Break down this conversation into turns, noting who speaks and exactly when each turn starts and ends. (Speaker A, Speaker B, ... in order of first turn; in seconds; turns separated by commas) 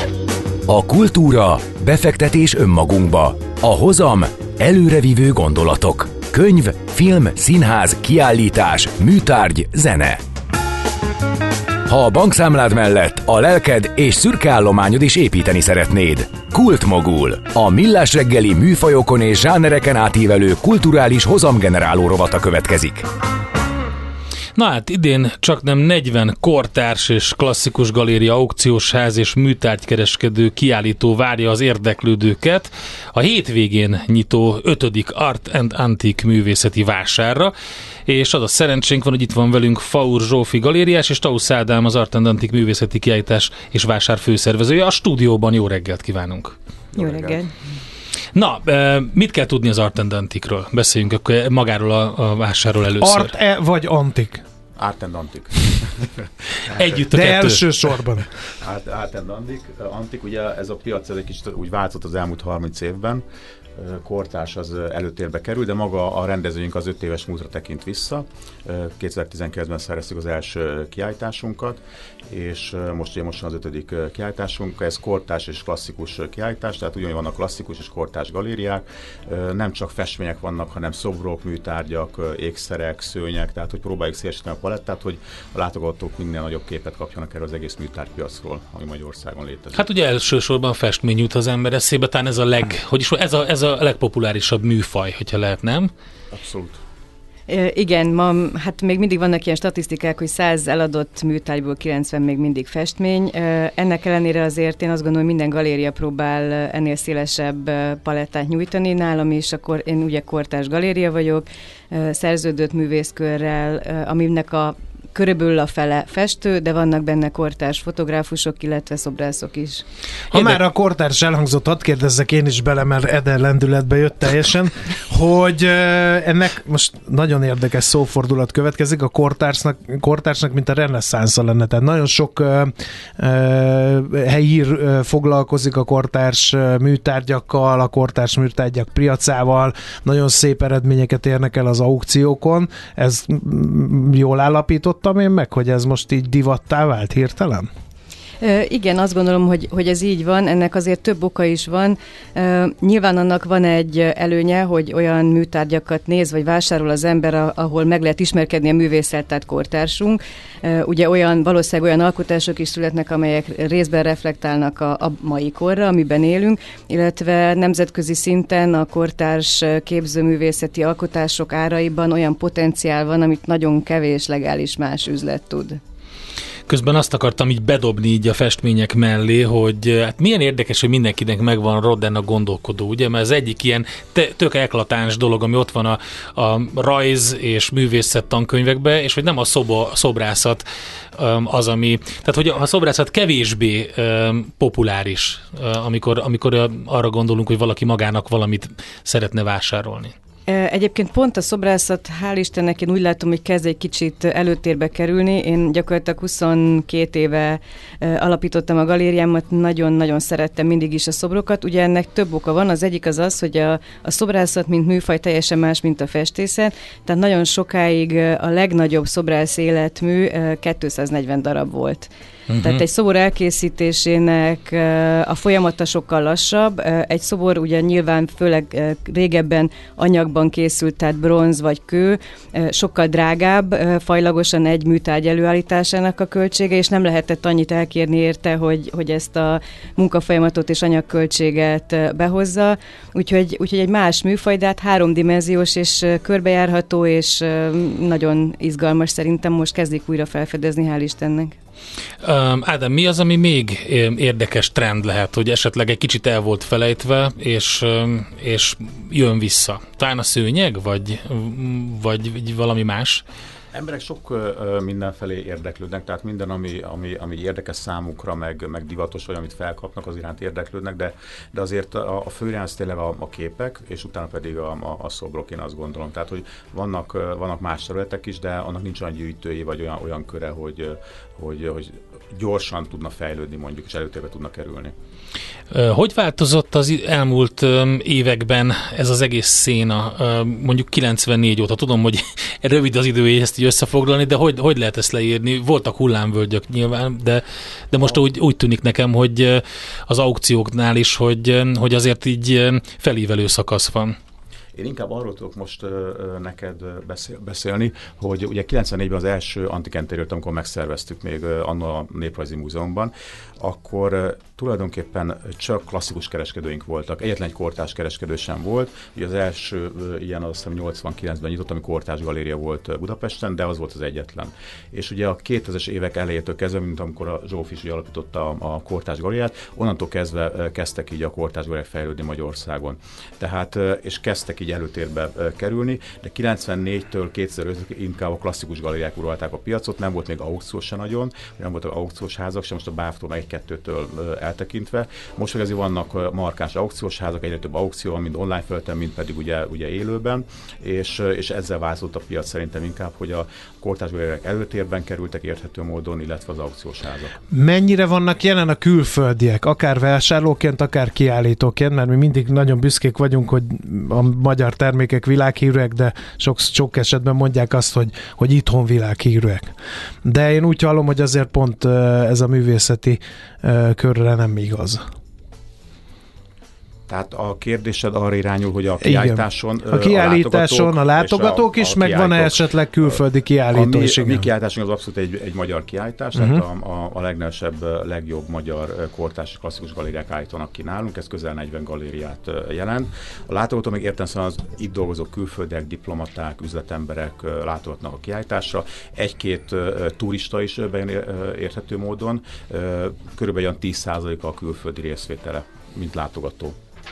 Speaker A: 0.7-10.2, Speaker A: 11.9-23.1, Speaker B: 24.6-37.5, Speaker B: 38.1-46.5, Speaker C: 46.9-47.4, Speaker D: 47.0-47.5, Speaker B: 48.4-53.3, Speaker E: 53.0-54.4, Speaker C: 54.8-57.0, Speaker B: 56.8-57.7, Speaker E: 57.0-58.3, Speaker C: 58.6-63.2, Speaker C: 63.8-89.9, Speaker B: 89.7-95.9, Speaker C: 96.3-96.8, Speaker D: 97.5-119.8, Speaker E: 120.3-147.7, Speaker D: 148.4-175.8, Speaker B: 176.7-190.6, Speaker B: 191.2-200.2, Speaker D: 200.5-251.6, Speaker B: 222.5-222.8, Speaker B: 252.2-263.2, Speaker C: 263.7-284.9, Speaker B: 285.7-304.2, Speaker C: 304.8-357.4, Speaker E: 357.5-369.7, Speaker E: 370.2-375.1, Speaker C: 377.1-406.8, Speaker E: 379.0-384.5, Speaker E: 386.4-386.6